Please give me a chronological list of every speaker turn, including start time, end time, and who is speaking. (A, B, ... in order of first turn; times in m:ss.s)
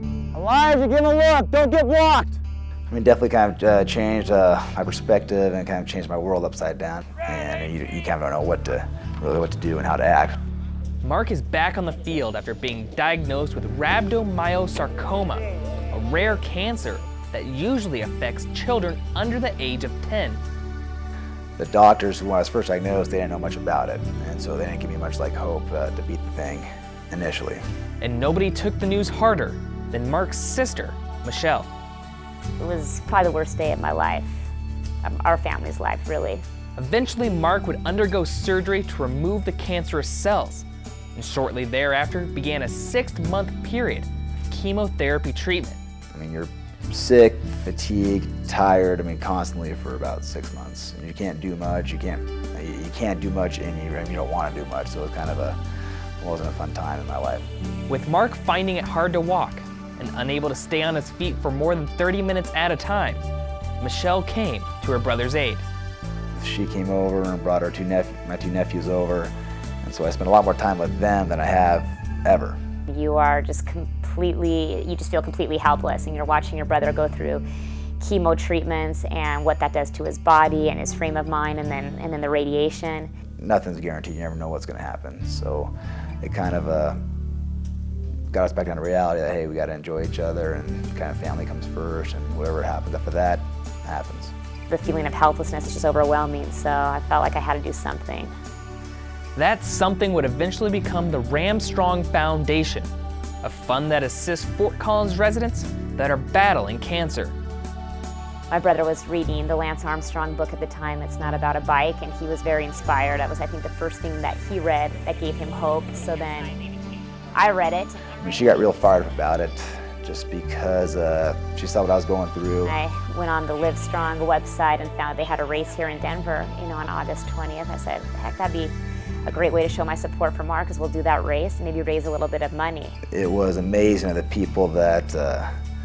0:00.3-0:02.4 A
0:02.9-0:10.4 B
0:11.0-0:20.4 C
0:21.6-0:27.6 B
0:28.0-0:31.7 C
0:32.6-0:34.5 D
0:35.0-0:36.4 D
0:36.8-0:45.8 C
0:46.1-0:55.6 B
0:56.2-0:57.5 B
0:57.9-1:03.2 C
1:03.8-1:05.6 C
1:06.3-1:12.6 B
1:12.9-1:17.4 D
1:18.0-1:23.1 D
1:23.4-1:27.0 B
1:28.3-1:34.3 B
1:34.7-1:38.3 D
1:39.4-1:42.9 C
1:43.4-1:47.3 C
1:48.5-1:56.6 D
1:57.3-1:58.0 D
1:58.2-2:02.7 B
2:02.6-2:08.7 D
2:09.2-2:13.0 D
2:13.1-2:15.5 B